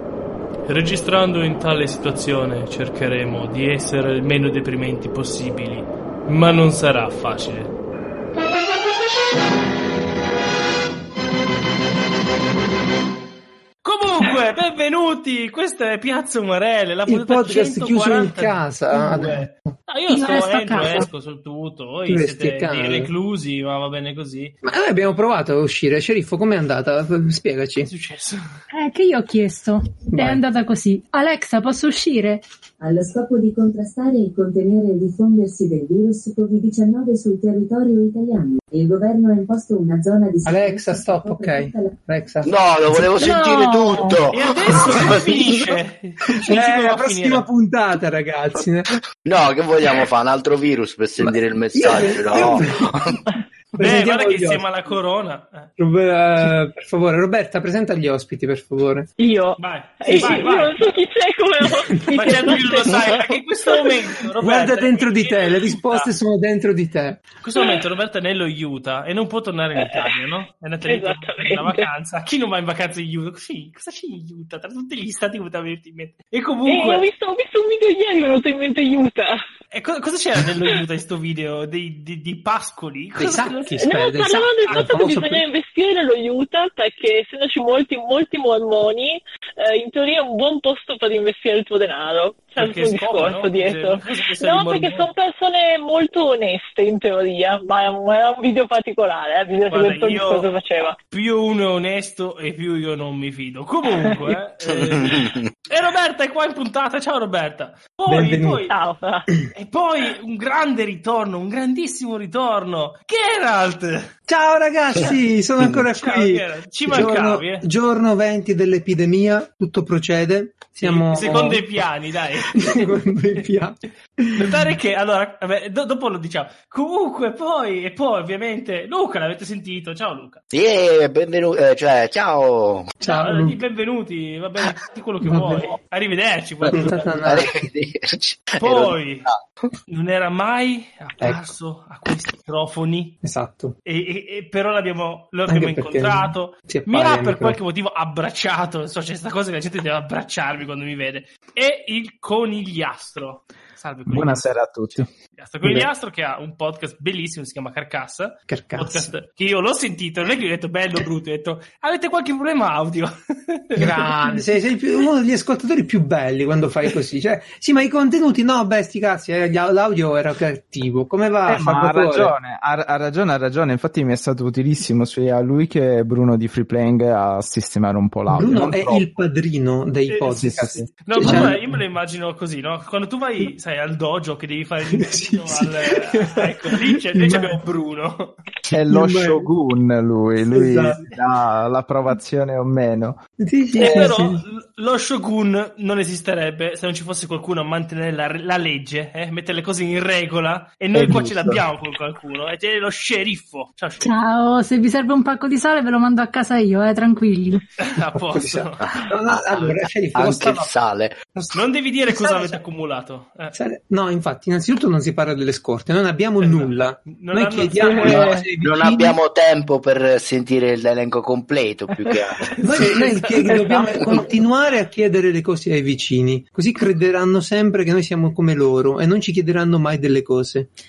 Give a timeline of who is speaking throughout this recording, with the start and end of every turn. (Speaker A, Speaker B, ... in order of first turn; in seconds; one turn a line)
Speaker A: 0.7-7.7
Speaker A: 13.8-24.5
Speaker B: 17.1-19.8
Speaker C: 20.1-21.1
Speaker B: 22.1-23.1
Speaker B: 24.6-27.9
Speaker A: 27.9-28.5
Speaker C: 28.7-32.4
Speaker B: 30.1-30.4
Speaker D: 32.8-42.0
Speaker B: 40.5-42.5
Speaker E: 42.4-45.8
Speaker C: 43.1-44.2
Speaker A: 44.3-47.5
Speaker B: 44.8-45.1
Speaker B: 46.3-48.9
Speaker E: 49.2-53.2
Speaker B: 51.2-52.9
Speaker B: 53.7-54.7
Speaker A: 53.8-55.7
Speaker B: 55.8-59.1
Speaker F: 59.2-63.0
Speaker A: 59.6-60.8
Speaker B: 60.1-60.4
Speaker A: 62.1-66.1
Speaker B: 64.4-67.2
Speaker A: 67.4-77.0
Speaker F: 69.8-70.1
Speaker F: 70.8-71.9
Speaker F: 76.7-79.4
Speaker A: 79.7-83.8
Speaker B: 83.2-85.4
Speaker F: 83.8-101.0
Speaker A: 92.6-95.1
Speaker A: 99.7-100.5
Speaker A: 101.1-108.7
Speaker E: 104.8-105.5
Speaker B: 108.1-108.6
Speaker F: 108.7-109.3
Speaker A: 109.5-114.1
Speaker B: 114.3-121.6
Speaker A: 115.9-117.7
Speaker A: 120.8-123.4
Speaker B: 122.5-124.7
Speaker A: 124.4-130.4
Speaker E: 130.5-132.9
Speaker B: 133.0-133.6
Speaker A: 133.0-137.0
Speaker B: 135.2-135.6
Speaker B: 136.7-137.5
Speaker E: 137.2-139.7
Speaker A: 138.6-139.3
Speaker A: 139.9-143.2
Speaker B: 143.2-143.8
Speaker A: 143.8-164.4
Speaker B: 145.5-147.6
Speaker G: 154.1-155.1
Speaker B: 158.5-159.1
Speaker B: 163.8-172.3
Speaker G: 171.5-179.0
Speaker B: 178.3-181.8
Speaker G: 180.2-181.5
Speaker A: 180.9-188.3
Speaker B: 184.9-187.6
Speaker G: 188.7-193.2
Speaker B: 188.9-189.5
Speaker B: 190.5-191.0
Speaker B: 193.4-194.4
Speaker A: 193.8-204.1
Speaker G: 200.9-201.6
Speaker C: 204.0-207.6
Speaker A: 207.8-208.8
Speaker B: 208.2-210.7
Speaker E: 208.8-211.2
Speaker A: 211.5-213.5
Speaker B: 212.1-212.6
Speaker B: 213.5-219.2
Speaker A: 216.4-218.4
Speaker F: 217.8-218.4
Speaker E: 218.0-223.0
Speaker A: 222.6-224.2
Speaker B: 222.6-230.7